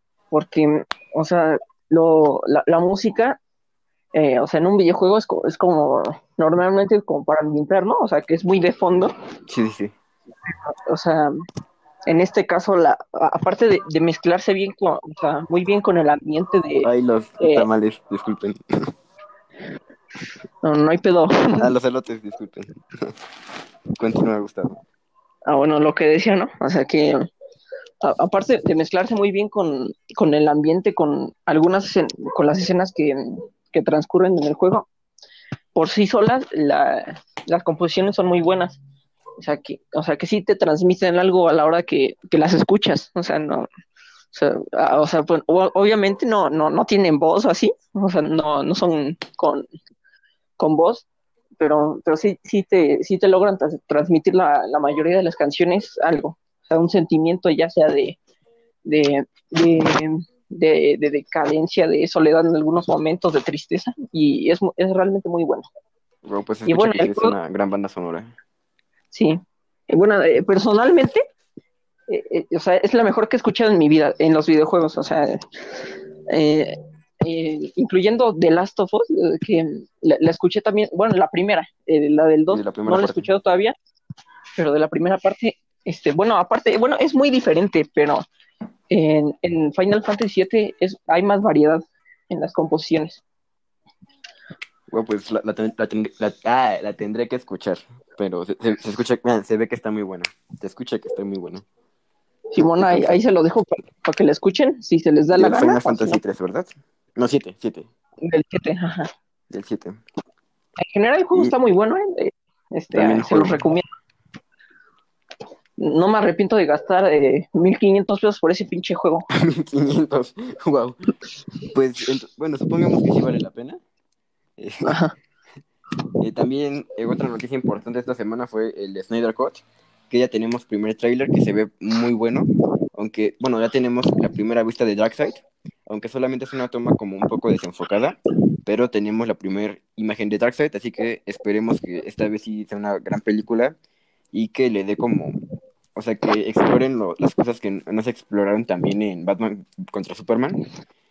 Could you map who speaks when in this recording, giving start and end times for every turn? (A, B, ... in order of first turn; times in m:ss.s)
0:00.3-0:03.4 A
0:04.1-0:09.1 A
0:09.5-0:09.9 B
0:10.5-0:11.3 A
0:12.1-0:17.7 A
0:16.8-0:18.9 B
0:20.6-0:21.7 A
0:21.6-0:23.1 B
0:24.0-0:24.8 B
0:25.5-0:27.3 A
0:28.0-0:34.9 A
0:35.7-0:38.8 A
0:39.4-0:43.7 A
0:44.3-0:49.6 A
0:50.6-0:51.0 A
0:51.6-0:58.2 A
0:58.8-1:05.6 A
1:06.2-1:08.3 B
1:06.7-1:07.3 A
1:09.1-1:11.2 A
1:12.1-1:23.7 A
1:22.5-1:23.3 B
1:24.6-1:28.2 A
1:28.9-1:33.2 A
1:34.9-1:41.6 B
1:42.5-1:46.2 A
1:42.6-1:43.2 B
1:45.3-1:47.9 B
1:48.2-1:49.1 A
1:49.5-1:50.0 B
1:50.8-1:53.8 A
1:52.9-1:53.7 B
1:55.8-1:59.3 A
1:59.3-2:01.0 B
2:01.7-2:03.8 B
2:04.6-2:05.0 B
2:04.8-2:05.1 A
2:06.2-2:23.8 B
2:24.3-2:25.4 B
2:25.9-2:30.6 B